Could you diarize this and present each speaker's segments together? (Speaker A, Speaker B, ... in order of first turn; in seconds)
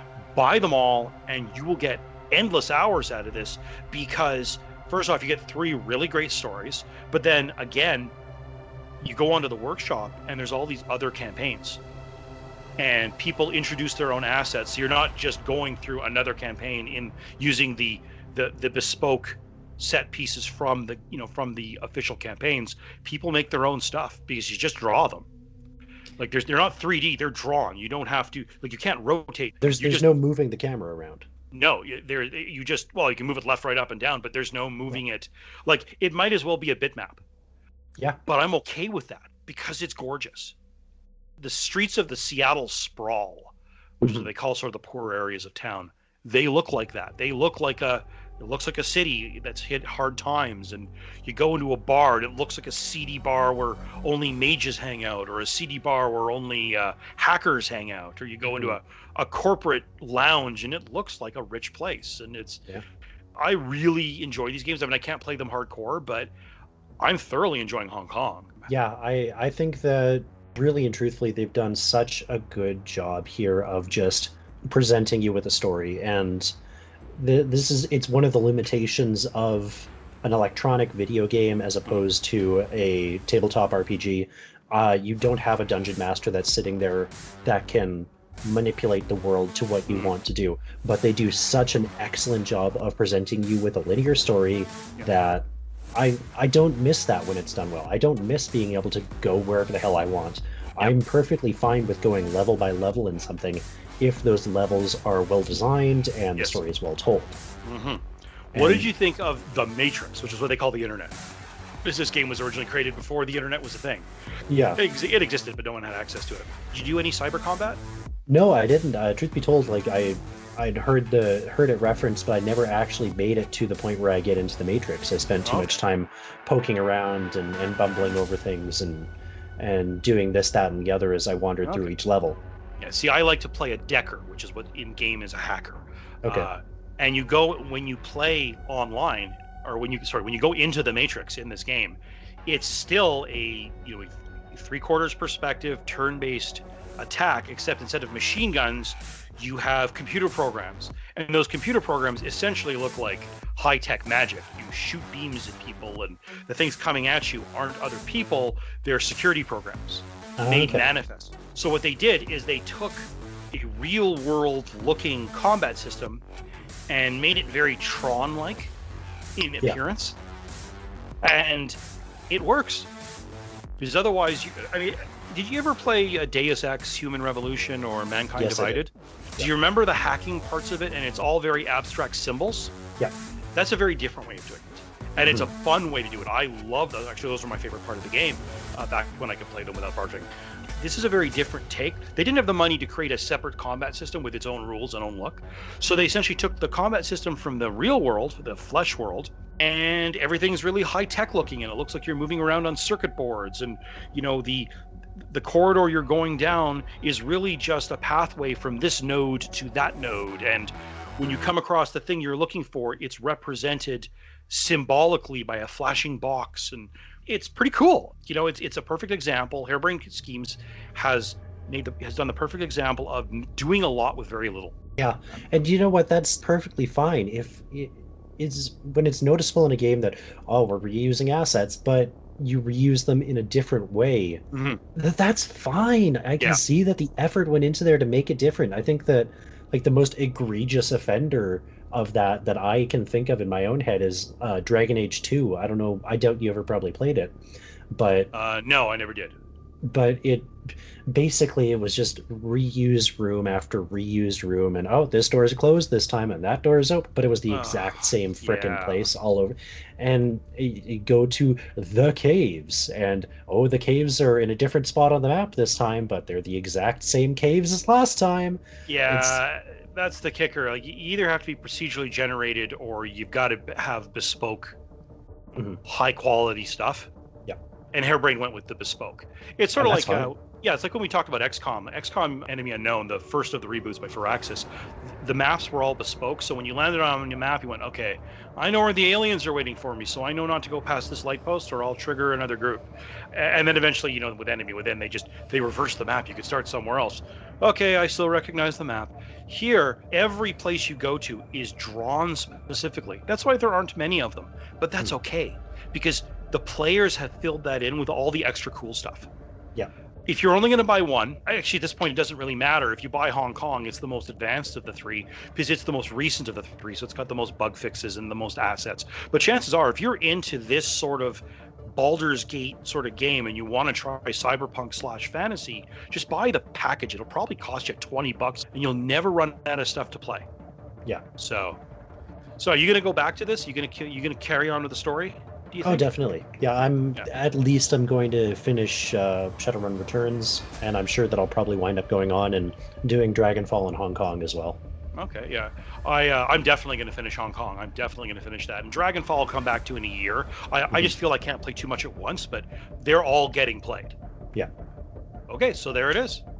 Speaker A: 0.3-8.1, 9.0-11.8, 12.8-25.3, 26.2-30.1, 31.5-37.2, 38.2-40.5, 41.4-62.6, 63.4-66.3, 67.0-68.7, 89.9-90.1, 107.6-111.2, 111.8-114.1, 114.8-117.8, 125.4-125.8, 131.6-131.9, 132.8-166.2, 166.9-168.7, 169.3-170.2, 171.2-171.8, 172.3-172.9, 173.8-182.7, 183.5-224.7, 234.5-234.8, 248.3-249.3, 257.5-259.1, 268.9-274.8, 275.8-277.1, 277.9-309.3, 310.2-330.5, 331.4-331.8, 332.6-336.1, 345.1-354.1, 355.5-356.4
Speaker B: 29.6-31.3, 44.0-44.3, 68.7-76.5, 77.1-107.4, 108.5-108.9, 114.5-114.8, 118.3-132.4, 136.2-136.5, 160.4-160.9, 178.4-178.8, 185.2-185.5, 225.0-234.4, 234.9-247.4, 247.9-248.3, 249.8-250.5, 251.1-269.4, 275.5-275.8, 279.8-280.3, 335.8-344.8